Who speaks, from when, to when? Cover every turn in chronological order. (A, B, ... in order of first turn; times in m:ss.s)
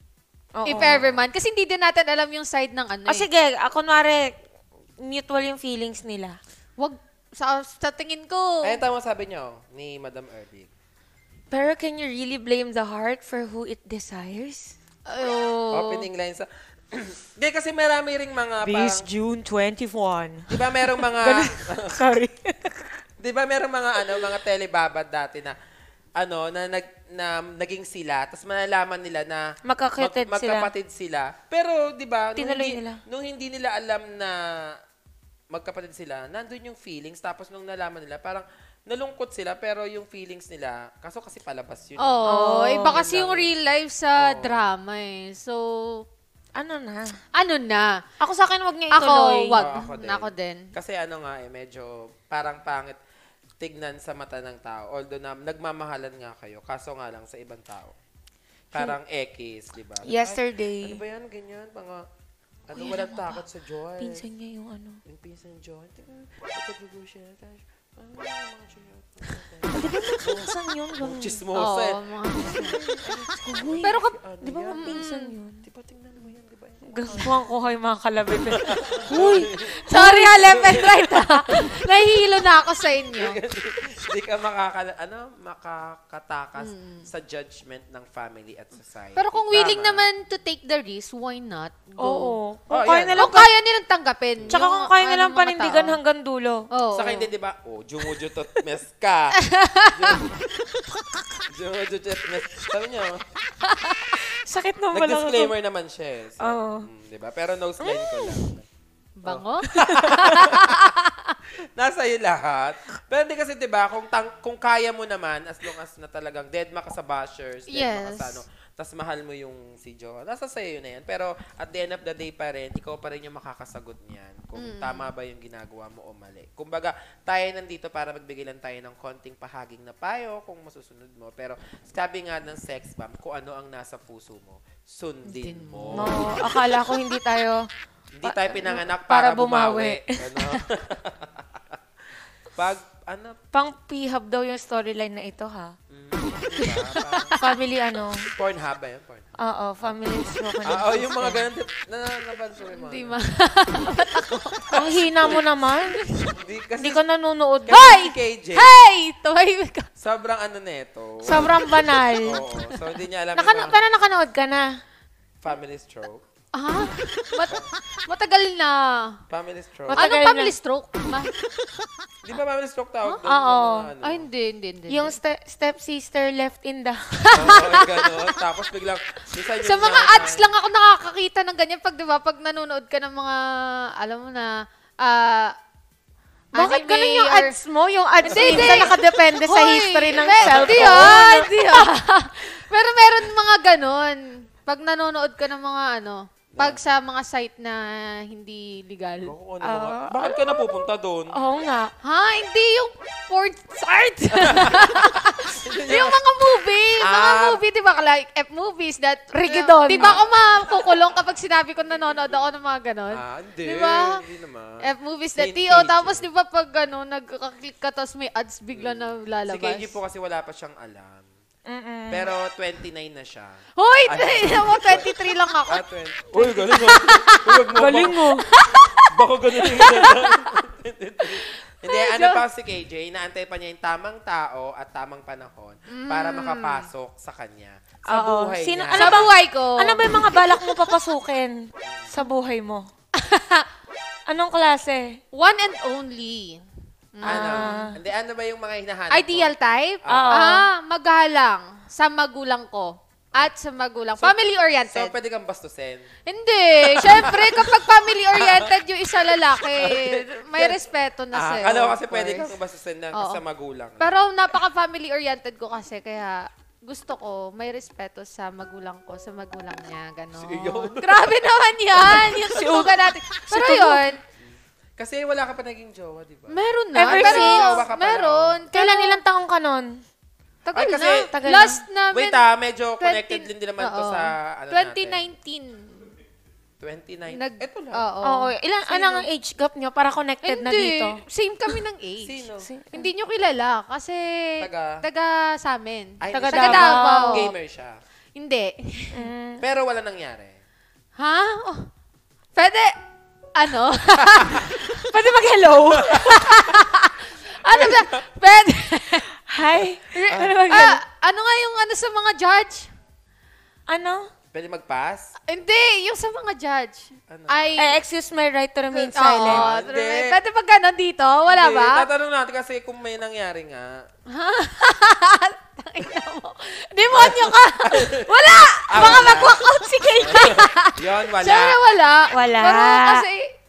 0:00.5-0:01.0 A
0:00.6-0:03.3 B
0:00.7-0:01.2 C
0:03.1-0:04.3 A
0:05.0-0:06.4 A
0:06.8-0:08.8 B
0:08.6-0:10.7 C
0:11.5-0:14.7 A
0:15.1-0:16.0 B
0:15.7-0:19.1 C
0:18.6-0:22.9 A
0:20.5-0:22.0 C
0:23.2-0:25.5 C
0:26.2-0:34.7 C
0:29.6-0:30.7 A
0:32.4-0:33.0 A
0:35.5-0:42.3 C
0:42.0-0:46.0 B
0:42.3-0:43.0 A
0:42.8-0:43.5 C
0:44.2-0:44.6 C
0:46.5-0:47.1 A
0:47.3-0:48.0 B
0:48.2-0:49.6 A
0:48.9-0:50.7 B
0:49.6-0:53.0 C
0:53.6-0:57.9 C
0:58.7-1:02.0 C
1:00.0-1:01.0 A
1:02.7-1:04.2 C
1:02.7-1:03.4 A
1:04.0-1:05.0 A
1:05.0-1:15.0 C
1:09.7-1:11.4 A
1:11.5-1:12.8 B
1:13.1-1:15.6 A
1:13.8-1:14.2 B
1:14.8-1:15.4 B
1:15.6-1:17.4 C
1:16.9-1:20.8 A
1:18.4-1:19.8 C
1:19.9-1:23.4 B
1:20.4-1:21.7 C
1:23.1-1:30.1 C
1:26.6-1:27.1 B
1:29.2-1:32.4 B
1:32.0-1:33.5 A
1:32.7-1:33.4 C
1:33.1-1:36.0 B
1:34.5-1:36.7 A
1:36.7-1:37.3 B
1:36.9-1:40.4 C
1:39.4-1:40.2 B
1:41.5-1:43.2 C
1:43.6-1:44.2 B
1:44.1-1:45.5 A
1:44.9-1:48.7 C
1:46.4-1:46.9 A
1:47.8-1:48.5 A
1:49.2-1:51.3 B
1:49.2-1:50.9 C
1:49.8-1:50.1 A
1:51.7-2:16.5 C
1:57.7-1:58.4 B
2:04.6-2:05.1 B
2:15.2-2:16.4 B
2:15.9-2:17.6 A
2:18.1-2:21.8 C
2:18.2-2:20.6 A
2:22.5-2:23.4 C
2:23.5-2:25.7 A
2:25.9-2:27.4 C
2:26.6-2:28.3 A
2:28.3-2:29.3 C
2:29.4-2:31.4 A
2:29.8-2:33.2 C
2:32.7-2:35.4 B
2:34.7-2:36.0 A
2:36.0-2:36.3 B
2:36.3-2:37.0 C
2:36.8-2:37.8 A
2:37.6-2:38.7 C
2:37.7-2:39.9 B
2:40.0-2:41.6 C
2:41.2-2:42.4 A
2:42.2-2:43.8 C
2:43.3-2:44.7 A
2:45.4-2:46.2 C
2:46.5-2:49.2 B
2:49.3-2:50.0 C
2:49.9-2:50.5 A
2:49.9-2:51.3 B
2:52.2-2:54.3 C
2:53.2-2:53.9 A
2:54.0-2:55.2 B
2:54.9-2:57.6 A
2:57.2-2:58.2 B
2:57.3-3:00.5 C
2:59.6-3:05.5 B
3:06.5-3:07.5 B
3:06.5-3:11.9 A
3:08.3-3:08.9 C
3:08.3-3:19.3 B
3:10.4-3:11.2 C
3:16.5-3:16.8 C
3:19.2-3:21.4 C
3:19.6-3:21.9 A
3:22.0-3:34.2 B
3:24.3-3:26.2 C
3:27.0-3:27.6 C
3:29.3-3:30.2 A
3:29.9-3:30.3 C
3:33.1-3:36.3 C
3:34.8-3:39.9 B
3:38.7-3:41.3 C
3:41.7-3:42.3 A
3:42.1-3:45.1 C
3:43.8-3:47.7 B
3:45.7-3:59.3 C
3:47.7-3:48.4 A
3:48.4-3:50.5 B
3:51.3-3:52.4 B
3:55.9-3:56.9 B
3:58.1-4:01.6 A
3:58.9-4:00.2 B
4:01.8-4:02.1 C
4:02.1-4:02.9 A
4:03.1-4:03.6 B
4:04.3-4:05.2 A
4:05.3-4:06.6 B
4:07.1-4:07.8 B
4:07.2-4:07.9 A
4:07.2-4:10.4 C
4:09.1-4:15.1 B
4:10.1-4:10.7 A
4:14.9-4:16.1 C
4:16.2-4:22.5 B
4:16.9-4:17.8 C
4:18.3-4:18.7 C
4:19.5-4:24.1 C
4:23.1-4:23.4 B
4:24.0-4:34.2 B
4:30.4-4:31.4 C
4:32.0-4:32.5 C
4:32.4-4:33.0 A
4:33.5-4:34.0 A
4:34.4-4:38.6 C
4:36.5-4:39.2 B
4:36.9-4:37.8 A
4:38.7-4:39.9 A
4:40.7-4:42.4 B
4:40.7-4:41.4 C
4:41.2-4:41.8 A
4:42.1-4:45.3 C
4:43.0-4:46.1 B
4:46.8-4:48.0 C
4:47.3-4:49.3 B
4:48.2-4:51.8 A
4:50.4-4:52.4 B
4:52.2-4:52.7 C
4:52.6-4:53.1 A
4:52.9-4:57.5 B
4:54.6-4:55.0 C
4:56.2-4:58.0 C
4:56.3-4:57.5 A
4:58.4-4:59.2 B
4:59.1-4:59.6 A
4:59.6-5:00.6 C
5:01.2-5:01.9 B
5:02.6-5:02.9 B
5:03.6-5:05.1 B
5:04.3-5:04.7 C
5:05.0-5:06.4 A
5:05.9-5:06.8 C
5:06.0-5:09.3 B
5:07.6-5:08.2 C
5:09.5-5:11.0 A
5:09.8-5:10.5 C
5:10.0-5:12.9 B
5:13.9-5:14.3 A
5:14.5-5:15.3 C
5:15.5-5:18.0 B
5:17.3-5:17.6 C
5:17.8-5:19.7 A
5:18.9-5:22.1 B
5:19.4-5:20.4 C
5:21.5-5:24.1 C
5:24.3-5:33.5 B
5:27.1-5:28.3 C
5:28.9-5:32.6 C
5:29.0-5:29.4 A
5:32.3-5:33.2 A